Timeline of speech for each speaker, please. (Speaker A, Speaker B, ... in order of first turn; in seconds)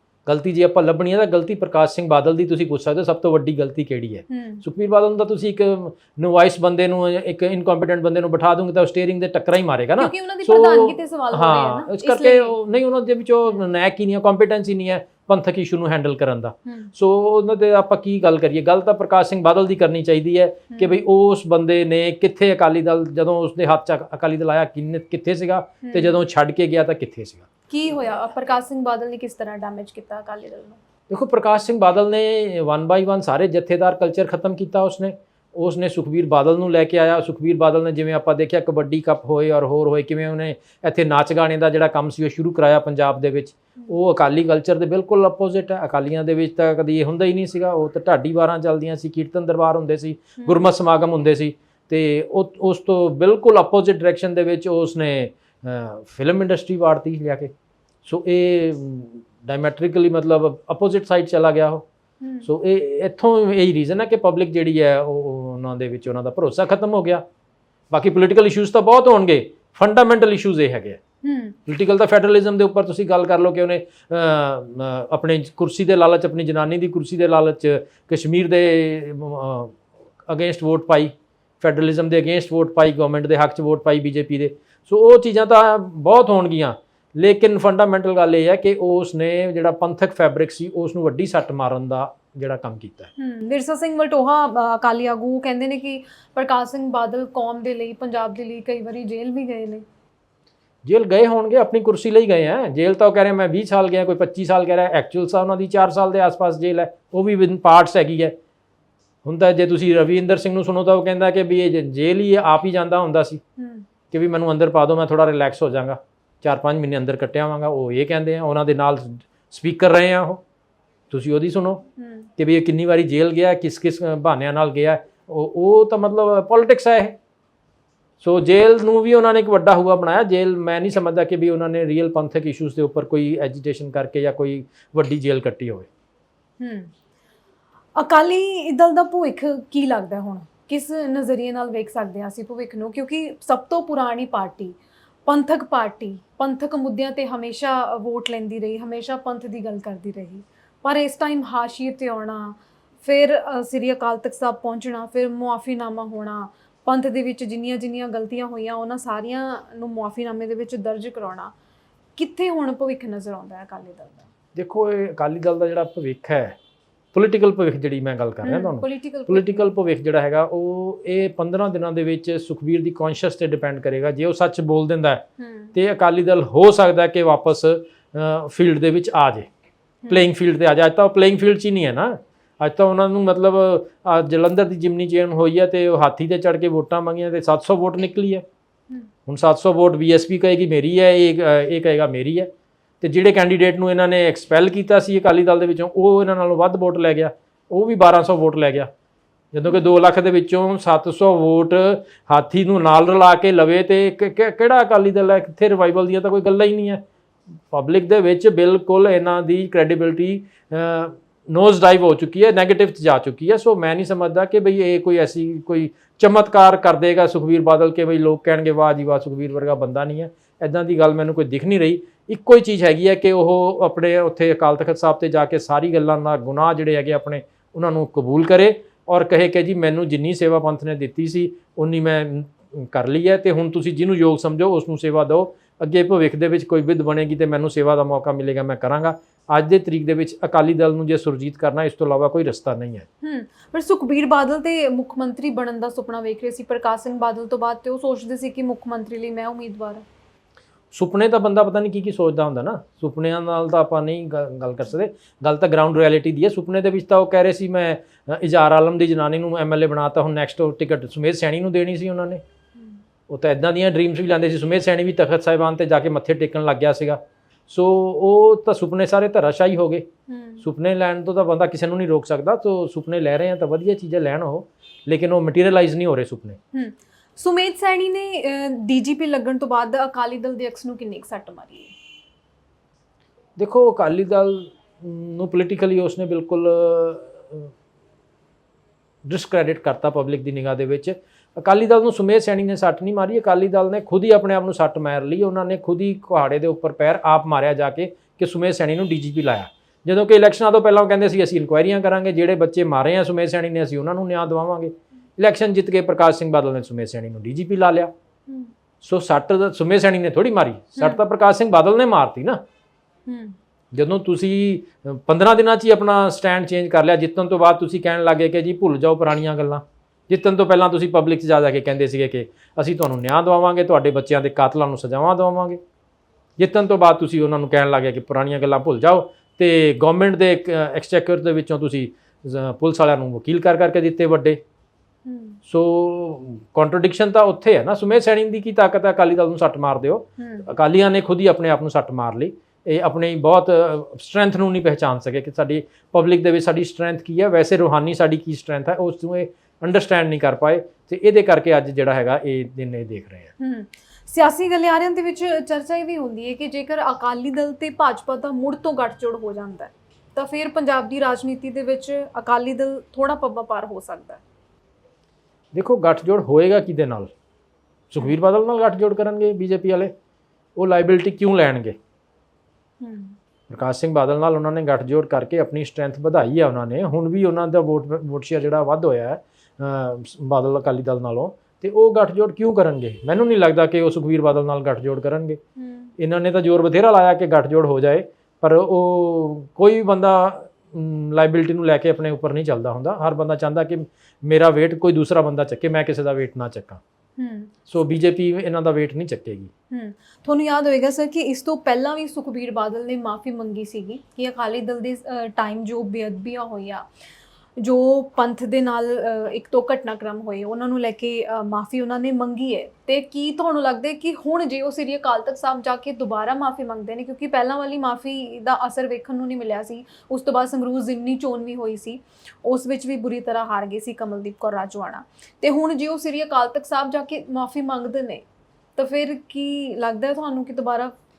Speaker A: 0.2-27.5, 31.1-57.5, 58.0-61.9, 62.4-67.2, 67.9-71.0, 71.7-93.1, 100.8-108.3, 109.2-113.4, 114.1-120.4, 121.1-121.8, 122.4-127.2, 128.2-135.9, 164.5-166.6, 167.1-179.5, 180.1-188.4, 189.2-198.9, 199.5-207.0, 207.7-243.1, 250.9-262.4, 263.3-270.1, 270.6-276.6, 283.6-287.7, 289.2-308.1, 309.0-312.6, 313.9-325.8, 326.6-334.6, 335.6-353.5, 365.7-367.3, 368.1-370.1, 370.8-372.0, 373.7-385.6, 386.2-397.0, 397.9-399.7
Speaker B: 4.3-4.6, 10.0-12.6, 16.6-16.9, 20.7-21.0, 25.8-26.2, 27.7-30.8, 62.2-62.5, 71.2-71.6, 93.2-99.8, 113.6-113.8, 122.0-122.3, 136.6-136.9, 137.9-161.5, 162.2-164.3, 168.4-169.7, 175.4-175.7, 180.0-180.3, 243.2-250.0, 270.3-270.6, 276.7-281.9, 311.0-311.2, 313.3-313.6, 335.2-335.6, 340.4-340.7, 353.6-364.4, 373.0-373.3, 385.8-386.1, 397.4-397.7, 399.9-407.0, 407.8-428.4, 429.0-431.1